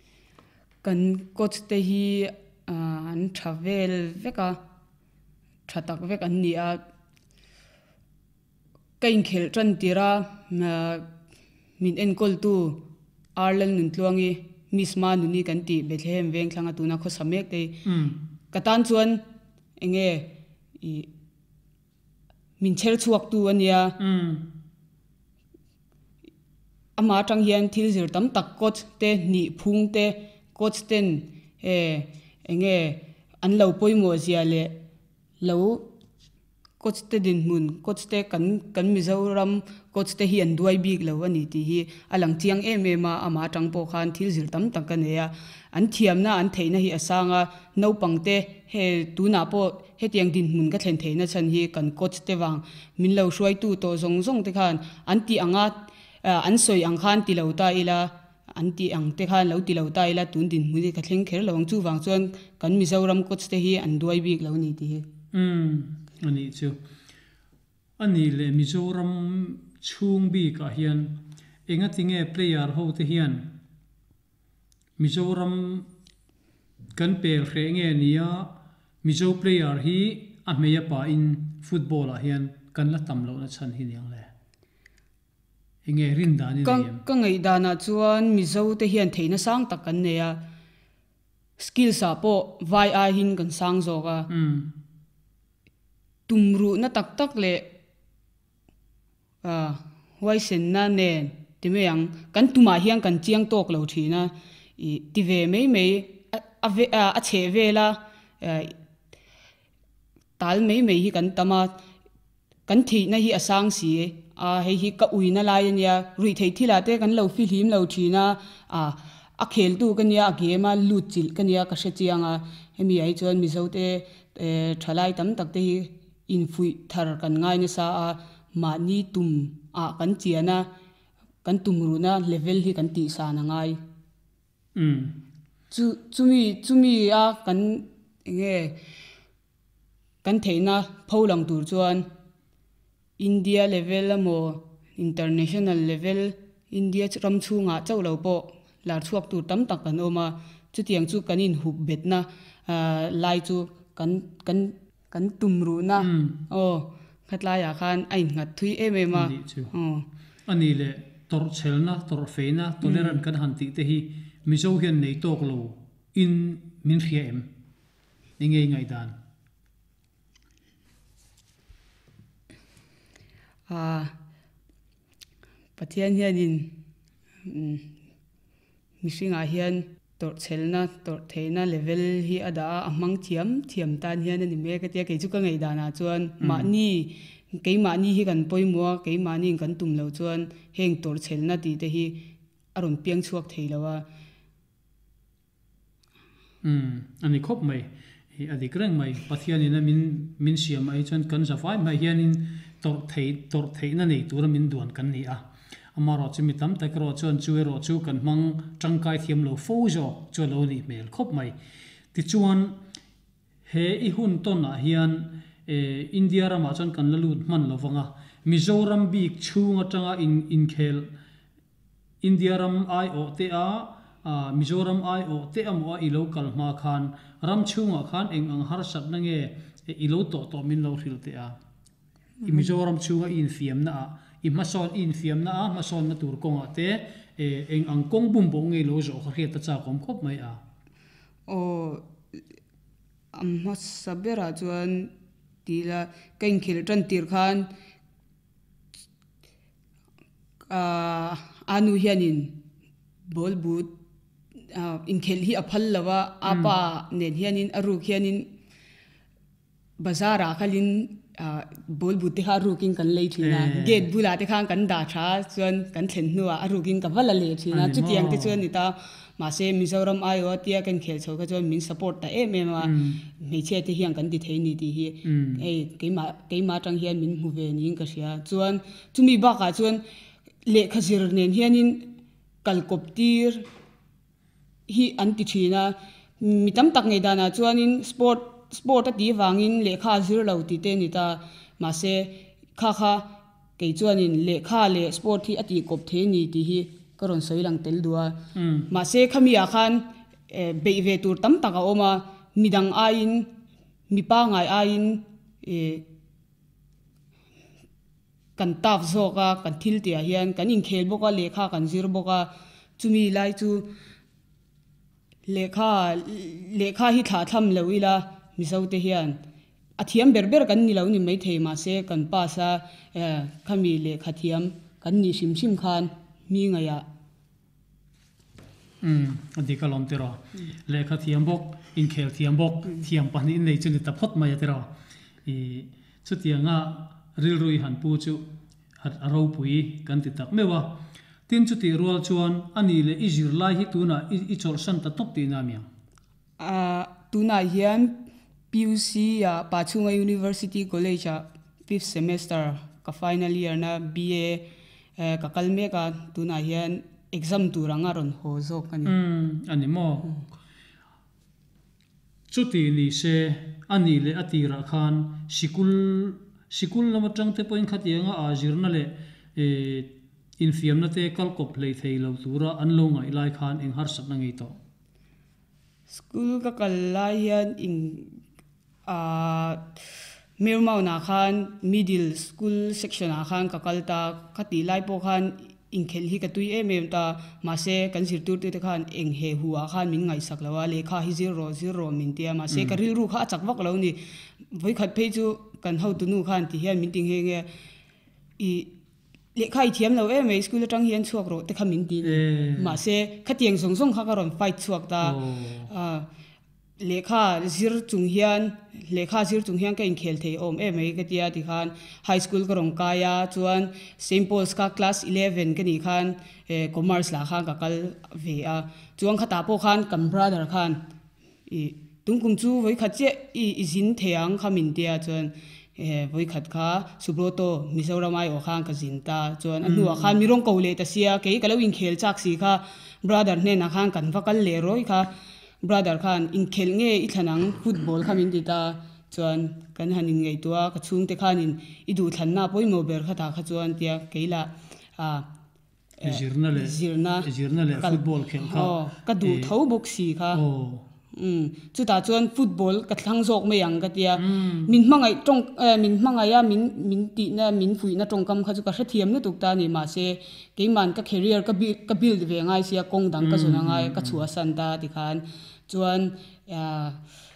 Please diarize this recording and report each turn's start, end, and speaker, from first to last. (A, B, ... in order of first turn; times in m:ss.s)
0:00.8-0:04.6 A
0:05.7-0:06.8 A
0:09.0-0:11.1 A
0:11.8-0:12.8 A
0:13.4-0:17.8 A
0:17.8-0:18.2 B
0:18.5-0:19.2 A
0:19.8-0:20.3 A
0:20.8-0:21.1 A
0:22.6-0:24.0 A
0:24.0-0:24.4 B
0:27.0-0:34.7 A
0:35.4-0:35.8 A
0:36.8-1:05.0 A
1:05.3-1:06.8 B
1:08.0-1:13.5 B
1:15.0-1:15.9 B
1:16.9-1:24.3 B
1:25.8-1:27.0 B
1:26.6-1:30.4 A
1:31.6-1:34.3 A
1:34.3-1:34.7 B
1:36.3-1:37.7 A
1:39.4-1:48.7 A
1:50.4-1:51.7 A
1:52.7-2:10.7 A
2:11.4-2:13.8 A
2:14.8-2:15.2 B
2:15.7-2:18.8 A
2:20.2-2:22.1 A
2:23.2-2:40.0 A
2:36.0-2:36.4 B
2:39.1-2:39.7 B
2:40.4-2:47.5 B
2:42.8-2:43.2 A
2:48.4-2:49.1 B
2:53.7-2:54.1 A
2:55.8-2:56.8 A
2:57.4-2:57.9 A
2:59.0-3:14.0 A
3:06.4-3:06.7 B
3:16.6-3:25.4 B
3:25.9-3:31.6 B
3:32.1-3:32.8 B
3:33.6-3:41.1 B
3:42.2-3:51.5 B
3:52.4-3:52.7 A
3:52.4-4:00.6 B
4:01.5-4:02.0 A
4:03.3-4:05.1 A
4:05.6-4:07.7 A
4:10.7-4:12.6 A
4:13.2-4:13.9 A
4:14.7-4:18.5 A
4:16.5-4:16.7 B
4:20.0-4:40.0 A
4:23.4-4:24.1 B
4:27.7-4:28.6 B
4:32.8-4:33.2 B
4:35.2-4:35.6 B
4:40.6-4:42.1 A
4:42.6-4:43.7 A
4:44.9-4:58.4 A
4:58.5-4:58.9 B
4:58.9-5:03.5 A
5:04.1-5:06.0 A
5:08.6-5:13.9 A
5:15.5-5:19.4 A
5:20.0-5:27.0 A
5:29.0-5:34.9 B
5:35.4-5:38.4 B
5:39.0-5:45.9 B
5:46.6-5:48.2 A
5:48.7-5:54.6 A
5:55.2-5:59.1 A
5:59.0-6:00.3 B
6:02.5-6:14.7 B
6:16.1-6:18.4 A
6:19.0-6:20.0 A
6:20.6-6:37.7 A
6:32.7-6:33.0 B
6:38.6-6:38.9 A
6:39.5-6:46.3 A
6:42.2-6:43.0 B
6:45.2-6:45.9 B
6:47.0-7:01.0 A
7:01.7-7:25.5 A
7:09.8-7:10.4 B
7:26.2-7:30.6 A
7:26.2-7:29.7 B
7:30.5-7:31.0 B
7:31.3-7:47.2 A
7:34.4-7:35.0 B
7:43.4-7:44.4 B